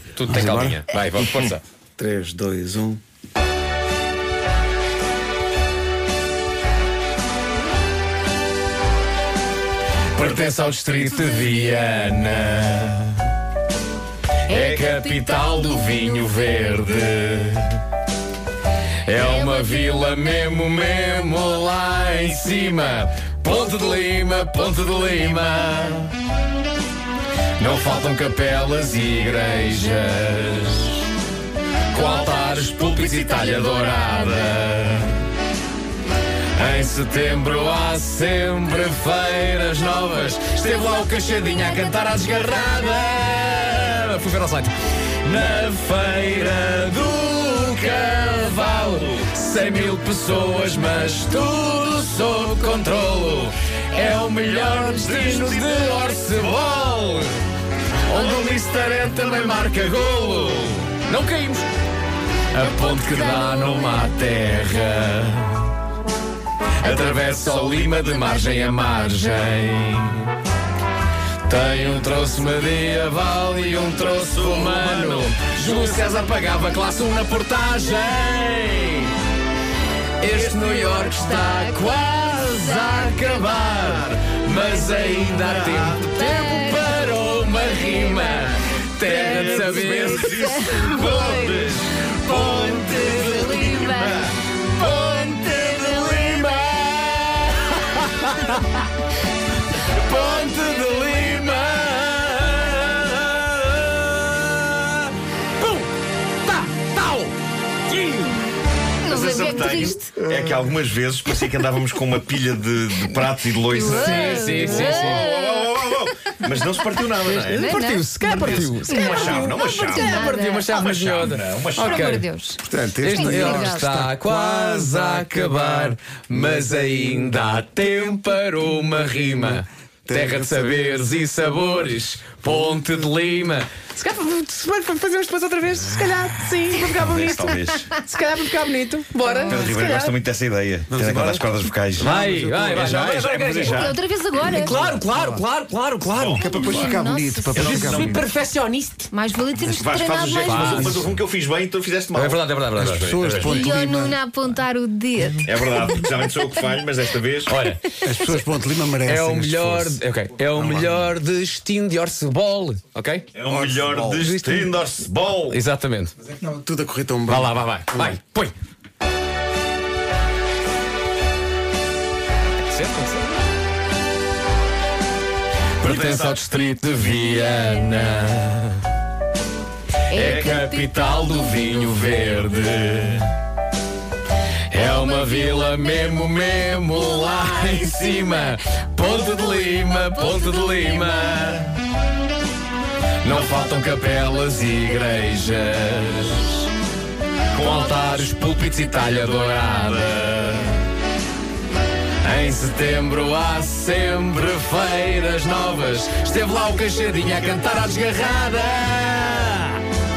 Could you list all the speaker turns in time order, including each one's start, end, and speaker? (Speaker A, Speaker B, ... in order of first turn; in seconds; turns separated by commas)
Speaker A: 0.2-1.6, Speaker B: 0.3-3.0, Speaker A: 10.2-13.3, Speaker A: 14.5-17.8, Speaker C: 14.5-15.3, Speaker A: 19.1-26.1, Speaker A: 27.6-31.1, Speaker A: 31.9-35.2, Speaker A: 36.6-57.3, Speaker A: 58.1-61.7, Speaker A: 62.5-65.7, Speaker C: 62.6-64.1, Speaker A: 66.8-70.3, Speaker A: 71.5-79.2, Speaker D: 74.4-75.6, Speaker A: 80.2-90.6, Speaker C: 86.0-87.0, Speaker C: 87.9-91.7, Speaker D: 89.1-94.4, Speaker A: 92.3-93.2, Speaker C: 92.4-94.3, Speaker A: 94.7-98.8, Speaker C: 95.0-96.2, Speaker A: 99.8-105.9, Speaker A: 106.5-107.3, Speaker A: 107.9-108.4, Speaker C: 109.0-110.1, Speaker D: 109.1-122.2, Speaker B: 110.2-110.7, Speaker C: 113.7-115.7, Speaker A: 113.8-115.3, Speaker A: 117.2-122.3, Speaker C: 117.5-120.7, Speaker C: 121.8-123.9, Speaker B: 122.6-125.6, Speaker A: 123.0-140.2, Speaker B: 130.1-130.8, Speaker D: 136.8-137.9, Speaker C: 139.3-139.7, Speaker D: 139.5-144.0, Speaker B: 140.9-141.5, Speaker B: 142.0-143.1, Speaker A: 142.0-146.4, Speaker C: 143.7-144.8, Speaker B: 144.6-145.4, Speaker D: 146.2-146.8, Speaker B: 146.4-148.2, Speaker C: 146.4-148.1, Speaker A: 147.5-149.1, Speaker D: 147.7-148.2, Speaker C: 149.1-151.0, Speaker B: 149.6-150.0, Speaker D: 149.8-153.2, Speaker A: 150.4-151.0, Speaker A: 152.1-153.7, Speaker B: 152.8-154.2, Speaker C: 153.4-155.8, Speaker D: 155.4-157.6, Speaker A: 157.5-158.1, Speaker B: 158.0-160.0, Speaker A: 159.1-163.3, Speaker B: 160.5-161.1, Speaker D: 163.3-165.6, Speaker B: 163.4-164.2, Speaker A: 164.1-164.7, Speaker A: 165.5-166.1, Speaker B: 166.3-168.2, Speaker A: 167.3-168.5, Speaker A: 172.7-173.3, Speaker A: 175.8-178.8, Speaker D: 175.8-176.4, Speaker C: 180.1-180.7, Speaker A: 180.1-183.3, Speaker D: 180.1-180.6, Speaker A: 184.7-191.8, Speaker A: 193.2-196.7, Speaker A: 197.5-200.8, Speaker A: 202.2-209.8